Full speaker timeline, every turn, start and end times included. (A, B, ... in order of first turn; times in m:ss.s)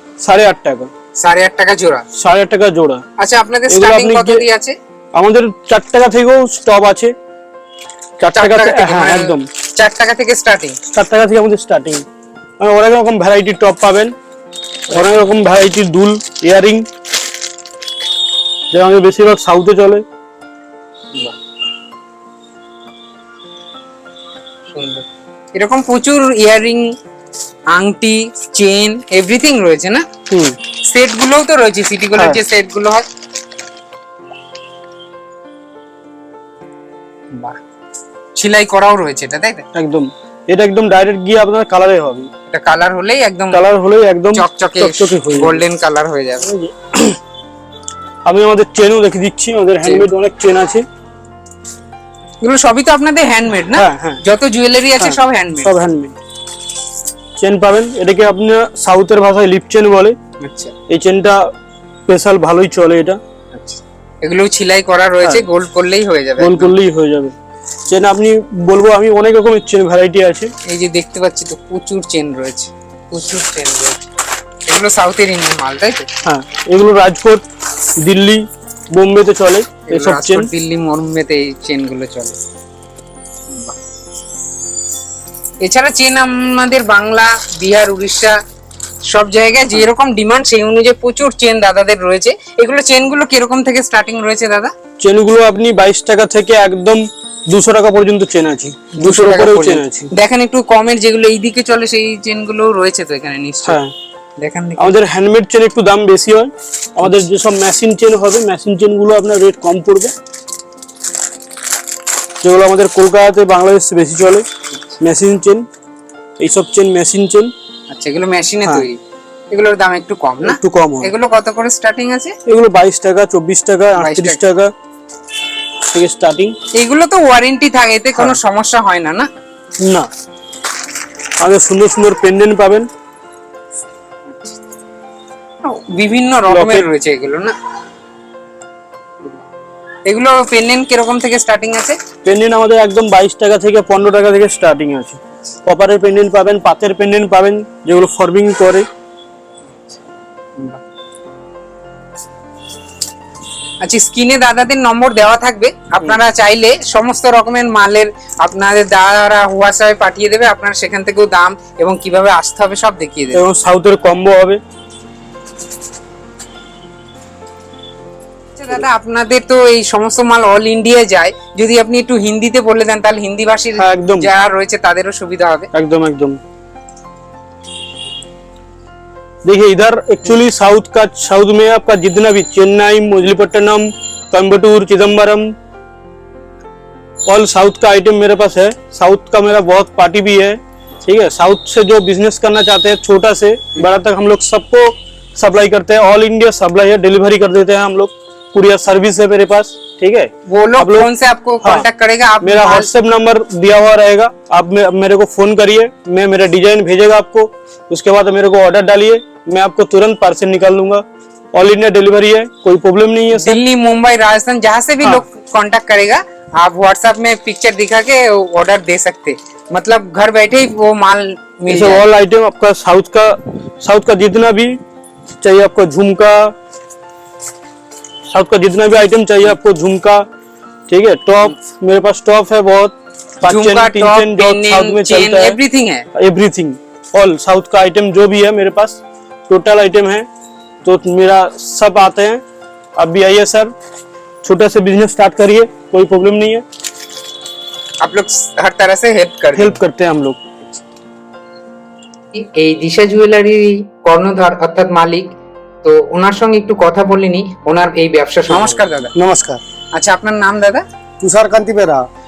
0:00.2-0:00.9 A
0:01.2-0:02.0 B
0:02.2-0:03.0 A
0:03.2-0:04.8 B
0:03.7-0:04.4 A
0:05.2-0:07.1 A
0:08.2-0:09.5 A
0:08.3-0:10.8 B
0:10.9-0:12.0 A
0:12.6-0:14.1 A
0:14.9-0:16.9 A
0:18.7-0:20.0 A
0:24.7-0:26.9 B
0:27.7-0:30.0 B
0:30.3-0:30.6 A
0:30.8-0:33.0 B
0:32.2-0:32.4 A
0:37.3-0:37.6 B
0:38.4-0:39.6 B
0:39.8-0:42.3 A
0:42.5-0:43.6 B
0:43.5-0:45.6 A
0:44.3-0:46.5 B
0:46.4-0:47.2 A
0:48.3-0:50.8 A
0:52.4-0:55.8 B
0:53.7-0:54.2 A
0:55.0-0:56.2 A
0:57.4-1:00.2 A
1:00.4-1:00.7 B
1:00.9-1:01.4 A
1:02.1-1:03.2 A
1:03.5-1:06.8 B
1:06.4-1:07.4 A
1:07.9-1:10.5 A
1:10.7-1:14.1 B
1:14.7-1:16.1 B
1:16.2-1:17.4 A
1:18.0-1:18.4 A
1:19.0-1:20.5 A
1:19.9-1:22.4 B
1:23.5-1:23.8 B
1:25.6-1:28.4 B
1:29.1-1:34.7 B
1:35.0-1:40.1 A
1:39.0-1:43.8 B
1:43.7-1:43.9 A
1:44.4-1:45.0 B
1:44.8-1:50.1 A
1:52.4-1:54.5 A
1:55.0-1:55.7 A
1:56.4-1:57.5 A
1:57.9-1:59.0 B
1:59.5-2:02.3 B
2:00.4-2:01.1 A
2:02.5-2:04.7 A
2:04.0-2:04.4 B
2:05.9-2:06.6 A
2:06.7-2:09.3 B
2:09.8-2:10.1 A
2:11.4-2:12.9 A
2:14.3-2:14.6 B
2:15.7-2:17.5 B
2:16.5-2:16.9 A
2:20.0-2:22.0 B
2:22.2-2:28.9 A
2:33.8-2:43.4 B
2:43.3-2:44.6 A
2:48.6-2:55.7 B
2:53.8-2:54.3 A
2:55.7-2:56.4 A
2:59.4-3:05.5 A
3:07.3-3:21.1 A
3:20.5-3:22.9 B
3:22.4-3:31.0 A
3:31.6-3:33.6 A
3:33.3-3:42.0 B
3:41.7-3:44.8 A
3:45.4-3:46.5 A
3:48.3-3:50.2 A
3:50.9-3:55.6 A
3:53.4-3:56.1 B
3:56.2-4:00.3 A
4:00.8-4:02.4 A
4:03.0-4:03.7 A
4:04.4-4:06.6 A
4:08.0-4:09.8 B
4:09.6-4:10.4 A
4:12.3-4:15.3 B
4:15.8-4:19.1 B
4:18.5-4:19.6 C
4:19.9-4:20.8 B
4:21.2-4:22.0 C